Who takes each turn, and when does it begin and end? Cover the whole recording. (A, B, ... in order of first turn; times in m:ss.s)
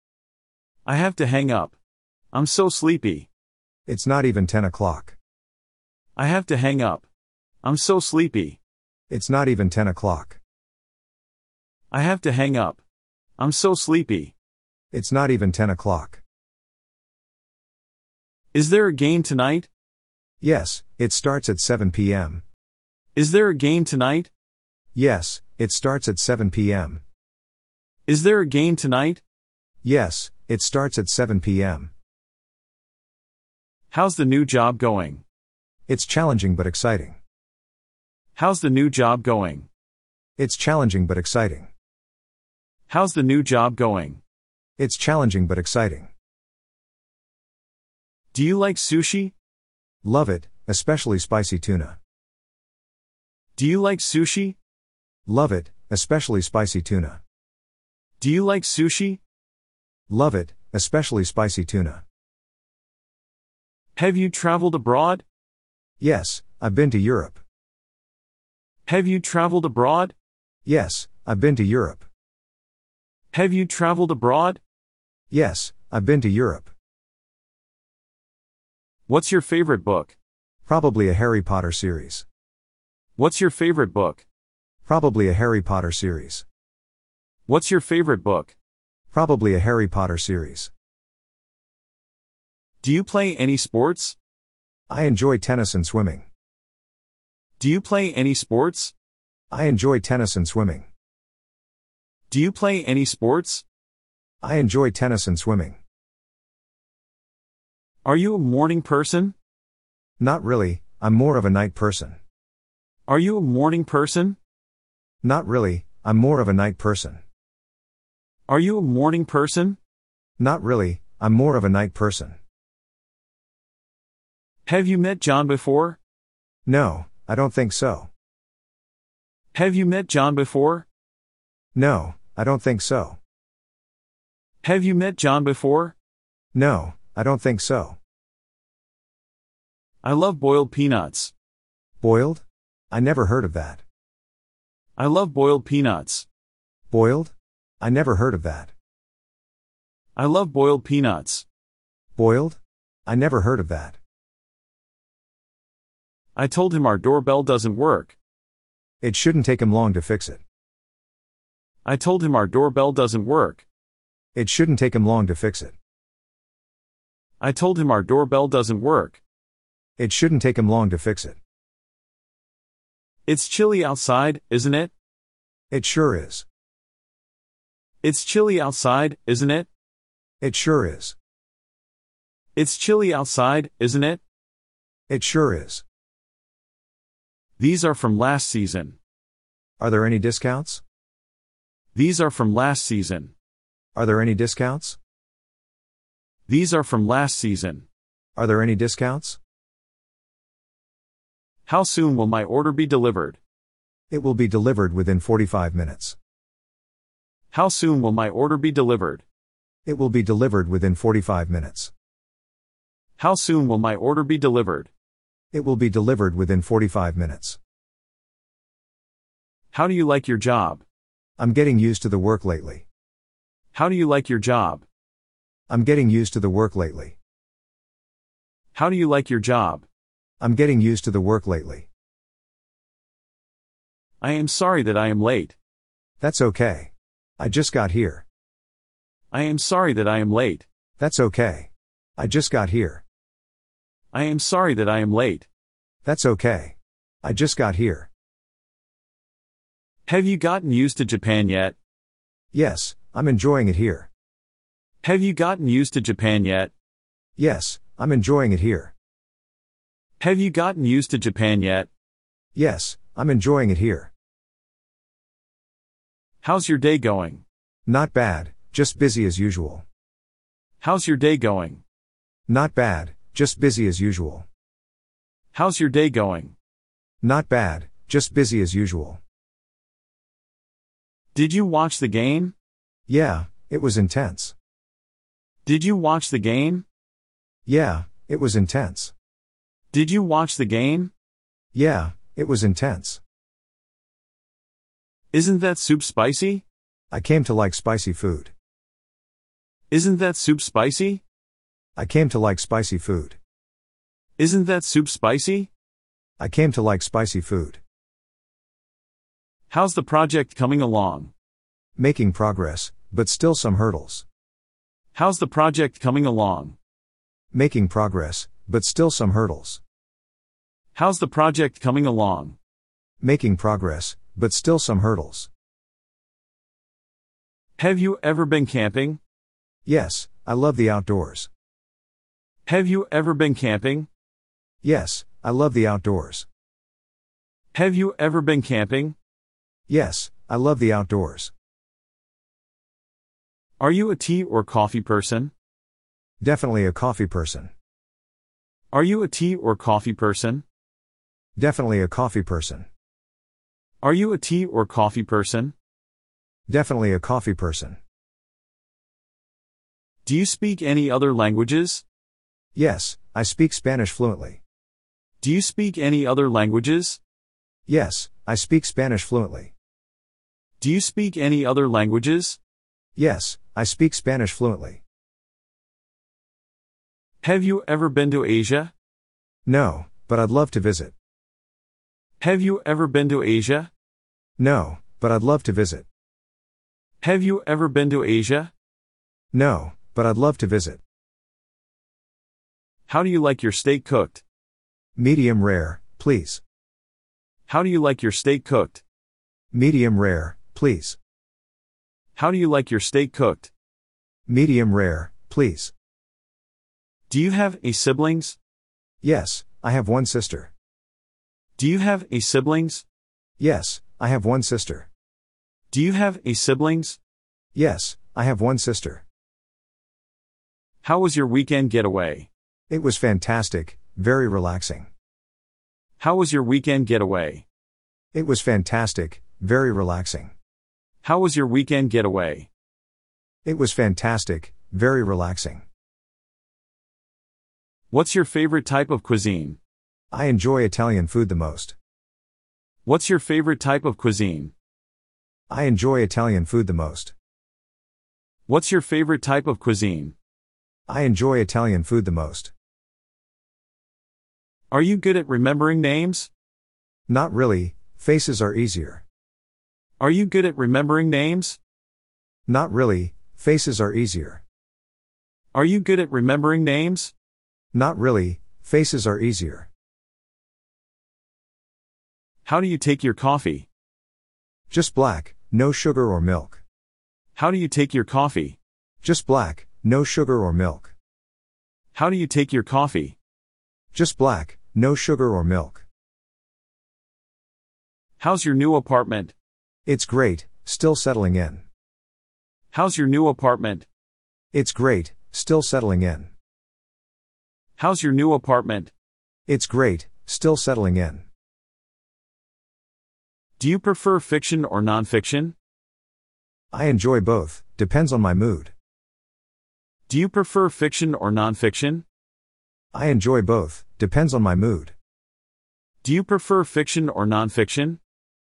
0:00.8-0:01.8 A
0:02.3-0:03.3 A
0:03.9-0:05.2 B
0:06.2-0:07.1 A
0:07.6-0:08.6 A
0:09.1-0:10.4 B
0:11.9-0:12.8 A
0:13.4-0:14.3 A
0:14.9-0:16.2 B
0:18.5-0:19.7 A
0:20.4-0:22.4 B
0:23.2-0:24.3 A
0:25.0-0:27.0 B
0:28.1-0:29.2 A
0:29.8-0:31.9 B
0:33.9-0:35.2 A
0:35.9-0:37.2 B
0:38.4-0:39.7 A
0:40.4-0:41.7 B
0:42.9-0:44.2 A
0:44.8-0:46.1 B
0:48.3-0:49.3 A
0:50.0-0:52.0 B
0:53.6-0:54.6 A
0:55.3-0:57.2 B
0:58.2-0:59.2 A
1:00.1-1:02.0 B
1:04.0-1:05.2 A
1:06.0-1:07.4 B
1:08.9-1:10.1 A
1:10.7-1:12.1 B
1:13.3-1:14.6 A
1:15.3-1:16.7 B
1:19.1-1:20.2 A
1:20.7-1:22.2 B
1:23.2-1:24.2 A
1:24.9-1:26.4 B
1:27.5-1:28.6 A
1:29.1-1:30.7 B
1:32.8-1:34.2 A
1:34.9-1:36.3 B
1:37.6-1:38.9 A
1:39.5-1:40.9 B
1:42.3-1:43.6 A
1:44.4-1:45.8 B
1:48.0-1:49.3 A
1:50.2-1:52.2 B
1:53.1-1:54.4 A
1:55.2-1:57.2 B
1:58.5-1:59.8 A
2:00.4-2:02.4 B
2:04.7-2:06.0 A
2:06.7-2:08.1 B
2:09.5-2:10.9 A
2:11.8-2:13.2 B
2:14.6-2:15.9 A
2:16.5-2:18.0 B
2:20.0-2:21.3 A
2:22.0-2:23.8 B
2:25.0-2:26.3 A
2:26.9-2:28.7 B
2:30.2-2:31.4 A
2:32.2-2:34.0 B
2:36.4-2:38.2 A
2:39.0-2:40.4 B
2:41.8-2:43.6 A
2:44.4-2:45.8 B
2:47.4-2:49.2 A
2:50.0-2:51.4 B
2:53.3-2:54.9 A
2:55.7-2:56.4 B
2:58.0-2:59.7 A
3:00.4-3:01.2 B
3:02.6-3:04.2 A
3:05.1-3:05.8 B
3:07.6-3:09.0 A
3:09.8-3:10.8 B
3:12.0-3:13.3 A
3:14.0-3:15.0 B
3:16.5-3:17.8 A
3:18.4-3:19.4 B
3:21.7-3:23.4 A
3:24.1-3:26.2 B
3:27.5-3:29.2 A
3:29.9-3:31.9 B
3:33.2-3:34.9 A
3:35.5-3:37.6 B
3:39.7-3:40.8 A
3:41.4-3:42.8 B
3:43.7-3:44.8 A
3:45.7-3:47.2 B
3:48.8-3:49.8 A
3:50.4-3:51.9 B
3:54.2-3:55.6 A
3:56.2-3:58.2 B
3:59.3-4:00.6 A
4:01.0-4:03.0 B
4:04.1-4:05.5 A
4:06.0-4:08.1 B
4:10.1-4:11.8 A
4:12.5-4:14.1 B
4:15.0-4:16.7 A
4:17.4-4:18.9 B
4:20.2-4:21.9 A
4:22.6-4:24.1 B
4:26.4-4:27.4 A
4:27.9-4:29.8 B
4:30.8-4:31.8 A
4:32.5-4:34.5 B
4:35.5-4:36.5 A
4:37.2-4:39.2 B
4:41.4-4:42.5 A
4:43.1-4:44.6 B
4:45.7-4:46.8 A
4:47.7-4:49.1 B
4:49.9-4:51.1 A
4:51.7-4:53.2 B
4:55.3-4:56.6 A
4:57.1-4:58.5 B
4:59.9-5:01.2 A
5:02.0-5:03.4 B
5:04.4-5:05.7 A
5:06.4-5:07.8 B
5:09.7-5:11.3 A
5:12.0-5:14.2 B
5:15.2-5:16.8 A
5:17.5-5:19.8 B
5:21.0-5:22.6 A
5:23.2-5:25.5 B
5:27.8-5:29.2 A
5:29.9-5:31.5 B
5:32.7-5:34.1 A
5:34.8-5:36.5 B
5:37.7-5:39.2 A
5:39.9-5:41.5 B
5:43.8-5:45.5 A
5:46.4-5:47.7 B
5:48.9-5:50.6 A
5:51.6-5:52.9 B
5:54.0-5:55.7 A
5:56.7-5:58.0 B
6:00.3-6:02.0 A
6:02.8-6:04.6 B
6:05.4-6:07.2 A
6:07.9-6:09.7 B
6:10.8-6:12.6 A
6:13.2-6:15.0 B
6:17.4-6:18.9 A
6:19.7-6:21.1 B
6:22.4-6:23.9 A
6:24.6-6:26.1 B
6:27.2-6:28.7 A
6:29.5-6:31.0 B
6:33.1-6:34.4 A
6:35.2-6:36.6 B
6:37.7-6:39.0 A
6:39.7-6:41.2 B
6:42.4-6:43.7 A
6:44.5-6:45.9 B
6:47.3-6:48.6 A
6:49.2-6:50.7 B
6:51.8-6:53.0 A
6:53.6-6:55.1 B
6:55.9-6:57.2 A
6:57.8-6:59.2 B
7:01.0-7:02.5 A
7:02.9-7:05.1 B
7:06.2-7:07.6 A
7:08.3-7:10.5 B
7:11.2-7:12.7 A
7:13.6-7:15.8 B
7:18.1-7:19.8 A
7:20.3-7:22.0 B
7:23.0-7:24.7 A
7:25.7-7:27.3 B
7:28.7-7:30.4 A
7:31.1-7:32.7 B
7:34.9-7:36.5 A
7:37.3-7:39.2 B
7:40.2-7:41.8 A
7:42.7-7:44.6 B
7:45.7-7:47.3 A
7:47.9-7:49.9 B
7:52.6-7:53.9 A
7:54.9-7:56.8 B
7:57.6-7:58.8 A
7:59.2-8:01.1 B
8:02.1-8:03.4 A
8:04.1-8:06.0 B
8:08.4-8:09.5 A
8:10.1-8:11.8 B
8:12.9-8:14.1 A
8:14.7-8:16.5 B
8:18.0-8:19.1 A
8:19.7-8:21.5 B
8:23.8-8:25.7 A
8:26.9-8:28.9 B
8:30.3-8:32.2 A
8:33.1-8:35.1 B
8:36.2-8:38.2 A